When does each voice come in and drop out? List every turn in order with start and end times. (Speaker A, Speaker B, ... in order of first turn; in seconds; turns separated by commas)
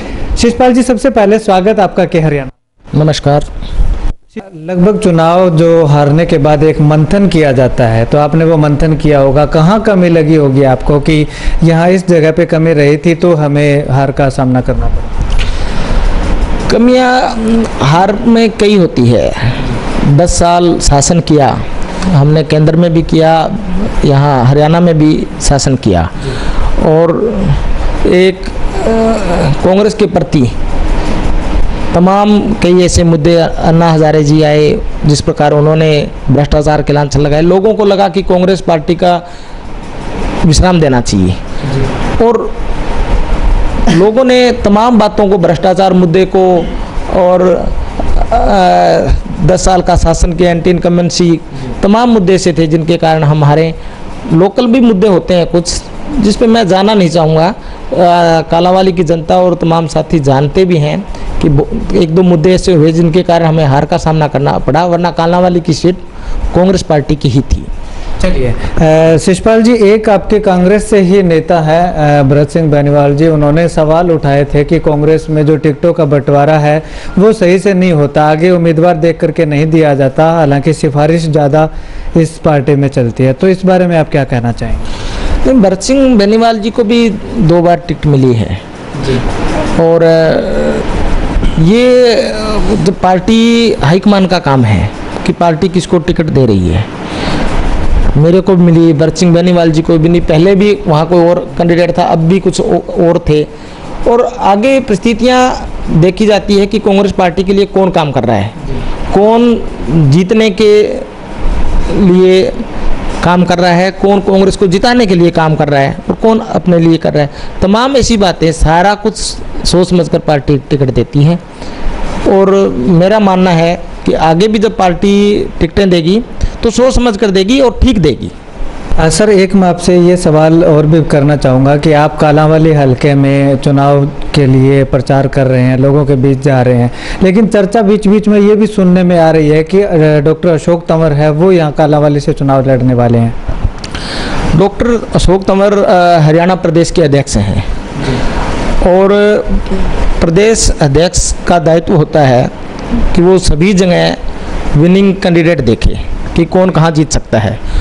Speaker A: 0.4-2.5, Speaker B: 3.0-3.5, Speaker A: 4.4-15.1, Speaker B: 16.7-30.5, Speaker B: 31.9-39.2, Speaker B: 40.4-41.4, Speaker B: 42.2-42.5, Speaker B: 43.9-53.8, Speaker B: 54.3-66.0, Speaker B: 66.5-67.7, Speaker A: 68.2-84.9, Speaker B: 85.4-88.6, Speaker B: 89.8-90.9, Speaker B: 91.6-96.9, Speaker B: 98.2-103.5, Speaker B: 104.0-108.5, Speaker B: 109.1-111.1, Speaker B: 111.9-112.6, Speaker B: 113.2-121.4, Speaker B: 122.2-128.3, Speaker A: 129.0-143.3, Speaker B: 144.5-147.7, Speaker B: 148.8-154.2, Speaker B: 154.8-157.6